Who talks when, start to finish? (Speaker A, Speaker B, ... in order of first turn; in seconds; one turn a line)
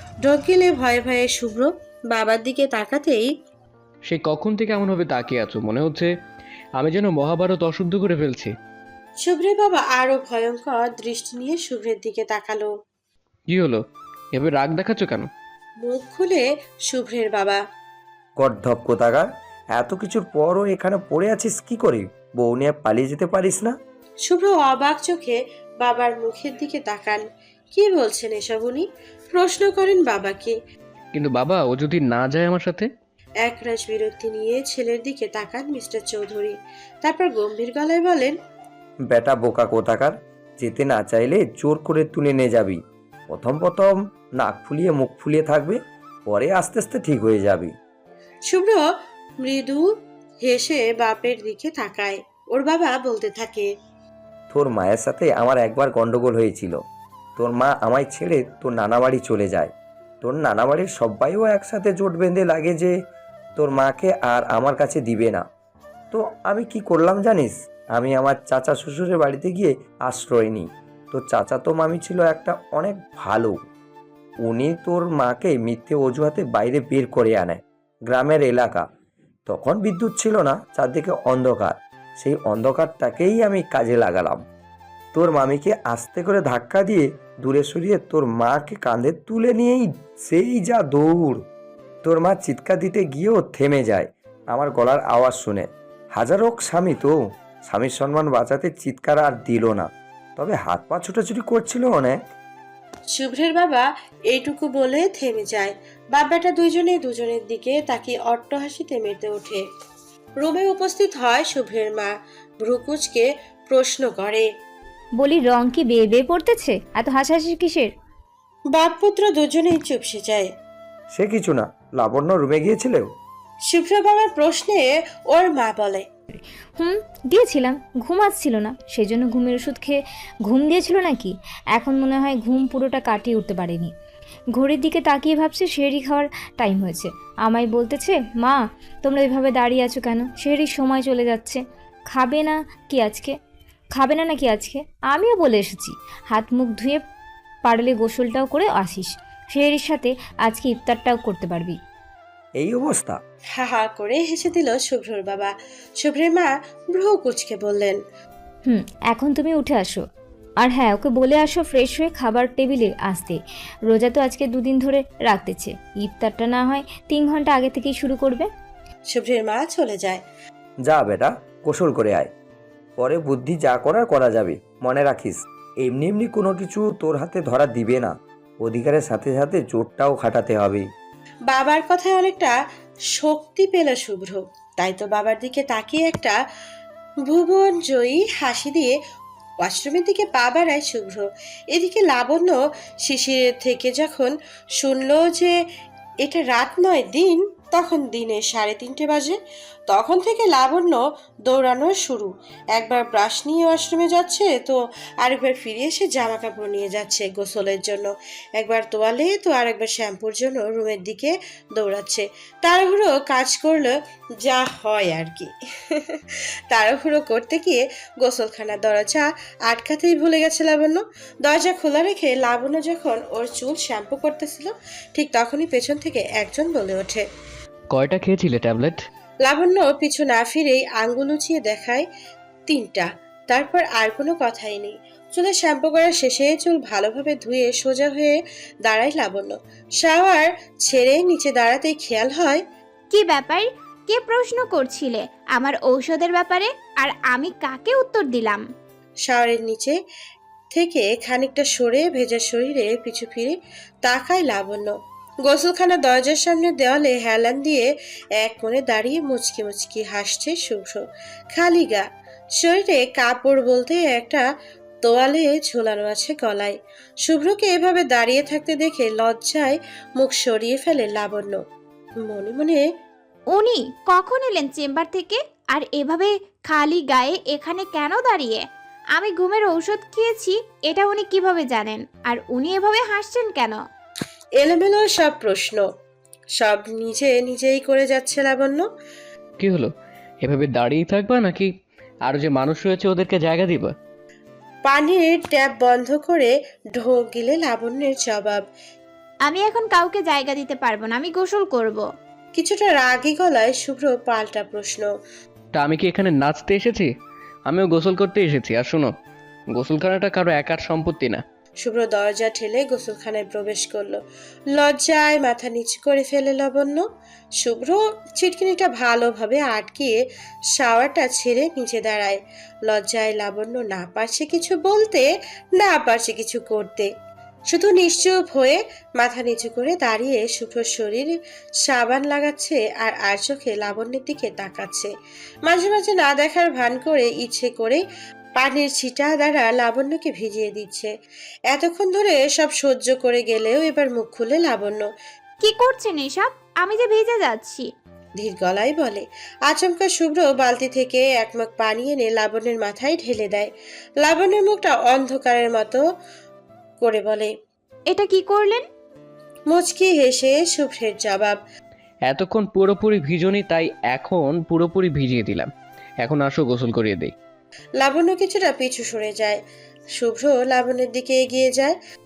Speaker A: 0.2-3.3
Speaker B: 4.1-6.1
Speaker B: 6.8-8.5
Speaker A: 9.2-12.7
Speaker B: 13.5-15.3
Speaker A: 15.8-17.6
Speaker C: 18.4-23.8
Speaker A: 24.2-27.2
Speaker A: 27.7-30.6
Speaker B: 31.1-32.9
Speaker A: 33.4-38.4
Speaker C: 39.1-47.8
Speaker A: 48.5-48.8
Speaker A: 49.4-49.9
Speaker A: 50.4-53.7
Speaker C: 54.5-56.8
Speaker C: 57.4-62.9
Speaker C: 63.6-65.4
Speaker C: 66.1-73.5
Speaker C: 74.5-78.8
Speaker C: 79.5-84.4
Speaker C: 85.1-91.4
Speaker C: 92.0-97.1
Speaker C: 97.7-102.2
Speaker A: 103.1-109.6
Speaker A: 110.4-114.5
Speaker D: 115.2-117.9
Speaker A: 118.7-120.5
Speaker C: 121.1-123.1
Speaker A: 123.7-126.1
Speaker D: 126.8-133.9
Speaker D: 134.5-143.3
Speaker D: 143.9-147.0
Speaker D: 147.7-151.8
Speaker C: 152.6-153.2
Speaker A: 153.6-158.0
Speaker D: 158.7-160.0
Speaker D: 160.6-168.5
Speaker A: 169.1-170.2
Speaker C: 170.9-172.3
Speaker C: 173.0-180.8
Speaker A: 181.5-182.5
Speaker A: 183.2-186.4
Speaker A: 187.2-188.9
Speaker A: 189.6-195.5
Speaker A: 196.2-199.4
Speaker A: 199.9-215.5
Speaker A: 216.7-227.2
Speaker B: 227.9-229.0
Speaker A: 229.4-232.1
Speaker A: 232.7-242.6
Speaker E: 243.1-248.6
Speaker A: 249.2-250.0
Speaker A: 250.7-257.9
Speaker A: 258.4-261.0
Speaker A: 261.5-262.1
Speaker A: 262.6-264.4
Speaker A: 265.0-271.6
Speaker A: 272.2-272.8
Speaker E: 273.5-283.8
Speaker A: 284.6-285.9
Speaker A: 286.6-288.9
Speaker B: 289.6-291.7
Speaker B: 292.2-293.9
Speaker A: 294.9-298.6
Speaker E: 299.4-302.1
Speaker A: 302.6-305.1
Speaker B: 305.7-307.1
Speaker B: 307.7-309.1
Speaker B: 309.7-311.4
Speaker A: 311.8-314.2
Speaker A: 314.7-317.0
Speaker A: 317.6-320.2
Speaker A: 320.7-325.2
Speaker A: 325.8-327.1
Speaker A: 327.7-335.1
Speaker A: 335.6-338.0
Speaker A: 338.6-341.1
Speaker A: 341.7-345.1
Speaker E: 345.6-347.9
Speaker A: 348.4-356.0
Speaker A: 357.0-357.5
Speaker E: 358.1-358.9
Speaker A: 359.7-361.6
Speaker B: 362.3-365.7
Speaker B: 366.2-367.4
Speaker A: 368.0-369.6
Speaker A: 370.2-372.0